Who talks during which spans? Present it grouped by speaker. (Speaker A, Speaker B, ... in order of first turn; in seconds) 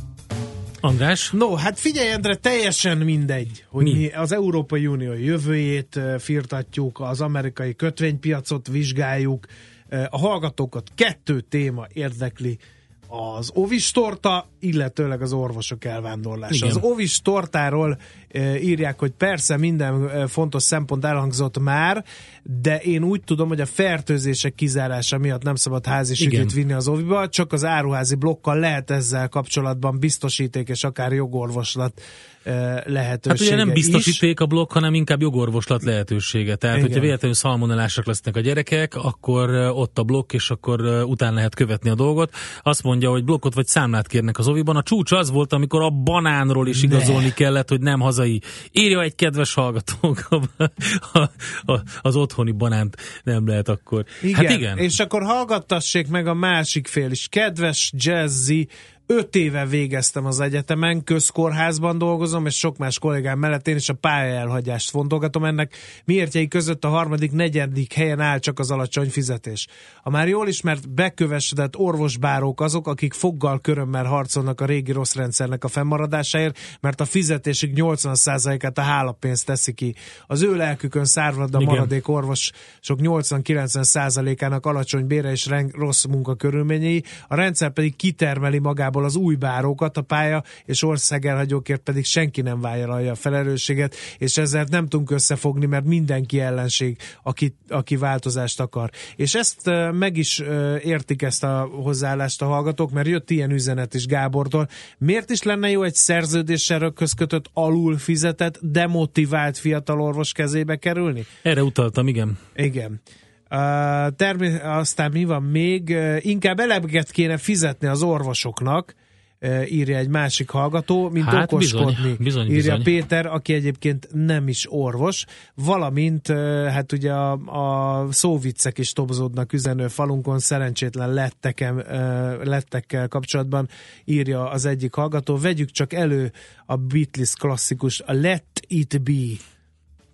Speaker A: 0.8-1.3, 16.5-16.8, 26.2-26.5, 33.3-54.8, 81.6-81.9, 111.5-112.4, 121.2-122.9
Speaker B: 1.3-34.2, 36.7-37.1, 46.7-47.4, 54.2-111.3, 112.6-113.0, 113.5-139.4